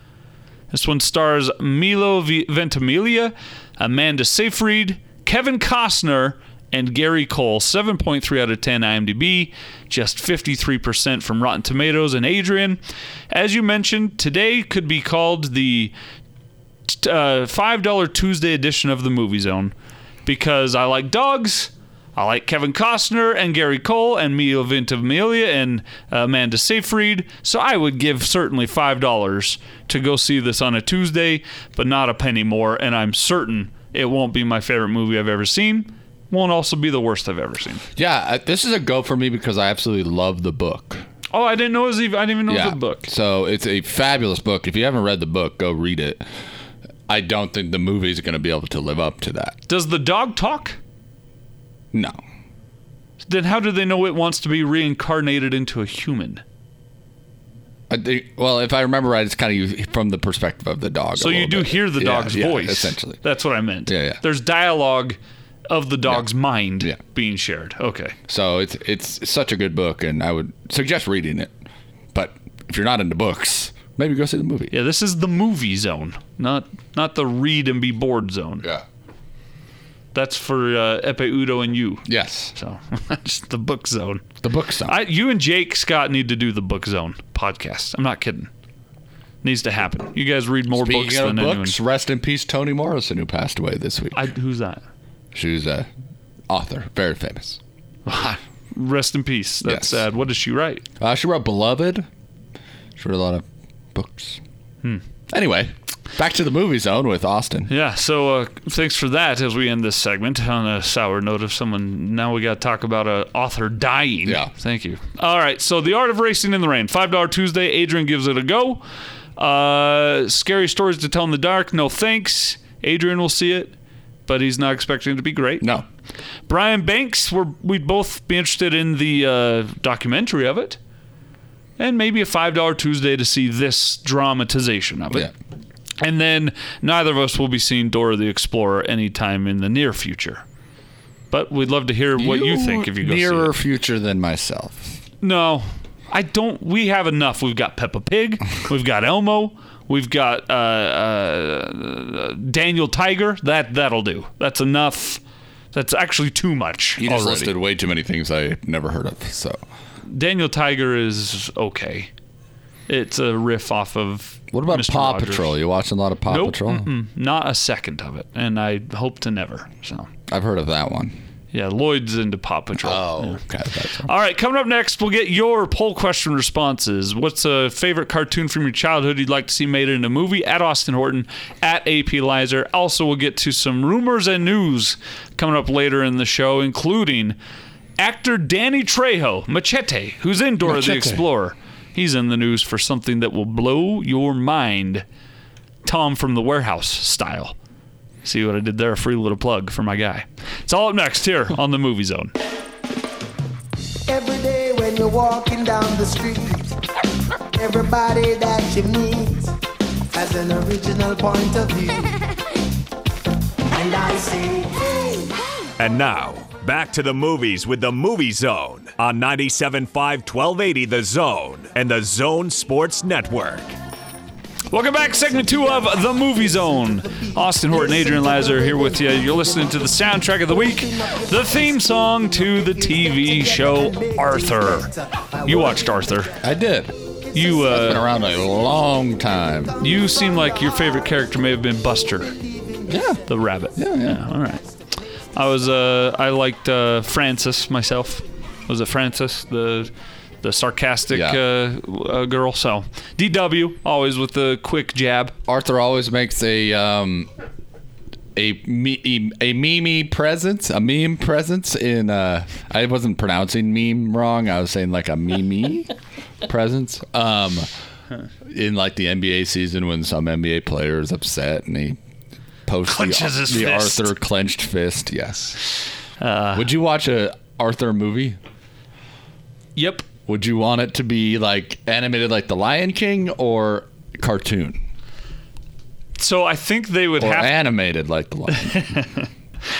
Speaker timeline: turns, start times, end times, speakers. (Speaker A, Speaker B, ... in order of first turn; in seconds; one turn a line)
Speaker A: 0.7-15.9
Speaker A: 16.9-19.7
Speaker A: 20.3-37.8
Speaker B: 38.0-41.0
Speaker A: 41.3-43.1
Speaker B: 42.5-46.2
Speaker B: 47.1-49.6
Speaker A: 49.7-50.8
Speaker A: 53.2-56.4
Speaker B: 57.9-63.2
Speaker A: 61.2-68.2
Speaker B: 63.9-64.2
Speaker B: 68.3-71.5
Speaker B: 72.1-74.7
Speaker A: 74.7-78.7
Speaker A: 80.1-84.3
Speaker B: 82.1-82.5
Speaker B: 84.4-85.0
Speaker A: 84.9-88.5
Speaker A: 89.4-91.8
Speaker B: 90.8-94.2
Speaker A: 94.1-94.8
Speaker B: 95.3-95.9
Speaker B: 96.5-97.6
Speaker A: 98.1-100.8
Speaker B: 99.6-100.0
Speaker B: 101.0-102.1
Speaker B: 103.0-104.4
Speaker B: 105.3-107.7
Speaker A: 107.7-118.8
Speaker B: 114.2-114.5
Speaker A: 119.4-123.8
Speaker A: 124.3-125.7
Speaker A: 126.5-130.8
Speaker A: 131.8-135.3
Speaker A: 136.0-140.4
Speaker A: 141.3-143.5
Speaker B: 142.2-145.0
Speaker A: 145.2-155.2
Speaker A: 155.7-157.6
Speaker B: 157.0-159.6
Speaker A: 160.1-162.1
Speaker A: 162.9-165.6
Speaker B: 164.5-166.9
Speaker A: 166.3-170.1
Speaker B: 170.3-171.2
Speaker A: 171.5-173.4
Speaker B: 172.8-174.1
Speaker A: 174.0-187.4
Speaker A: 188.0-195.1
Speaker B: 190.7-191.2
Speaker A: 195.8-197.6
Speaker A: 198.2-202.3
Speaker C: 204.1-206.8
Speaker C: 207.5-209.5
Speaker C: 210.1-212.2
Speaker C: 213.7-215.3
Speaker D: 215.8-223.7
Speaker A: 224.7-234.9
Speaker C: 225.5-236.1
Speaker A: 235.4-236.3
Speaker B: 236.4-236.9
Speaker A: 237.3-238.1
Speaker B: 237.6-239.8
Speaker A: 239.8-242.3
Speaker C: 242.6-242.9
Speaker B: 242.9-243.2
Speaker A: 243.2-244.6
Speaker B: 243.8-244.2
Speaker A: 245.3-249.9
Speaker A: 250.4-255.3
Speaker B: 251.1-251.4
Speaker B: 255.5-257.3
Speaker B: 258.4-265.9
Speaker B: 266.4-267.7
Speaker B: 268.4-272.0
Speaker B: 272.7-275.6
Speaker A: 272.9-274.1
Speaker A: 276.2-276.7
Speaker B: 276.5-278.4
Speaker A: 279.8-280.1
Speaker B: 280.3-284.8
Speaker A: 286.2-287.6
Speaker B: 287.2-288.8
Speaker A: 288.5-289.3